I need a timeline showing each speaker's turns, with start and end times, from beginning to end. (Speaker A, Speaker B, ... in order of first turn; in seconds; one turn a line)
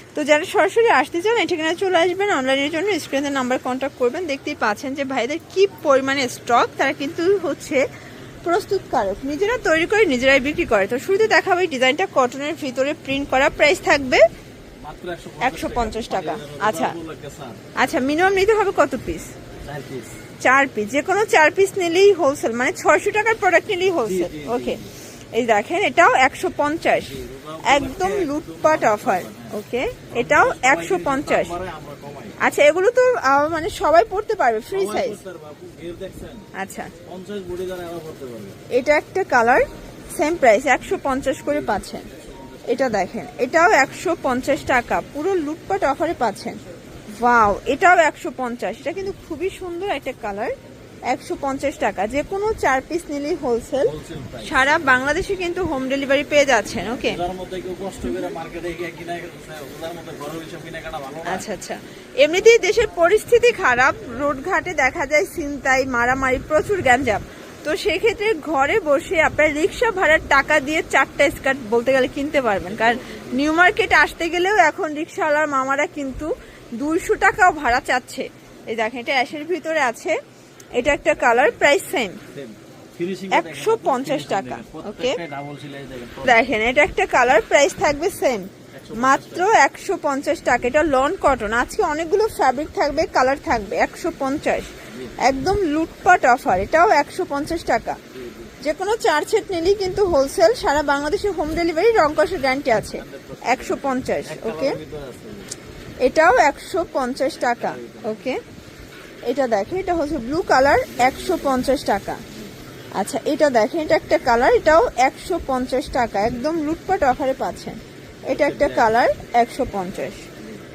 Speaker A: 0.1-7.8
Speaker A: 8.4-14.2
Speaker B: 14.8-17.6
Speaker A: 15.4-16.9
Speaker A: 17.8-19.3
Speaker B: 19.6-20.2
Speaker A: 20.4-24.8
Speaker B: 24.0-24.9
Speaker A: 25.3-27.1
Speaker B: 27.0-29.6
Speaker A: 27.6-31.5
Speaker B: 30.1-32.4
Speaker A: 32.4-35.2
Speaker B: 34.7-36.5
Speaker A: 36.5-36.9
Speaker B: 37.0-38.6
Speaker A: 38.7-42.1
Speaker B: 41.4-43.0
Speaker A: 42.7-46.6
Speaker A: 47.2-50.5
Speaker A: 51.1-57.2
Speaker B: 53.8-54.6
Speaker B: 56.9-61.5
Speaker A: 61.2-80.2
Speaker B: 72.7-73.6
Speaker A: 80.7-82.2
Speaker B: 81.2-81.5
Speaker B: 82.3-86.4
Speaker A: 83.3-85.2
Speaker A: 86.2-98.0
Speaker B: 88.7-89.5
Speaker B: 94.9-95.1
Speaker B: 98.1-98.5
Speaker A: 98.6-104.8
Speaker B: 102.7-105.5
Speaker A: 106.0-108.4
Speaker B: 107.4-108.3
Speaker A: 109.2-112.2
Speaker B: 110.9-111.8
Speaker A: 112.9-120.3
Speaker B: 118.3-118.9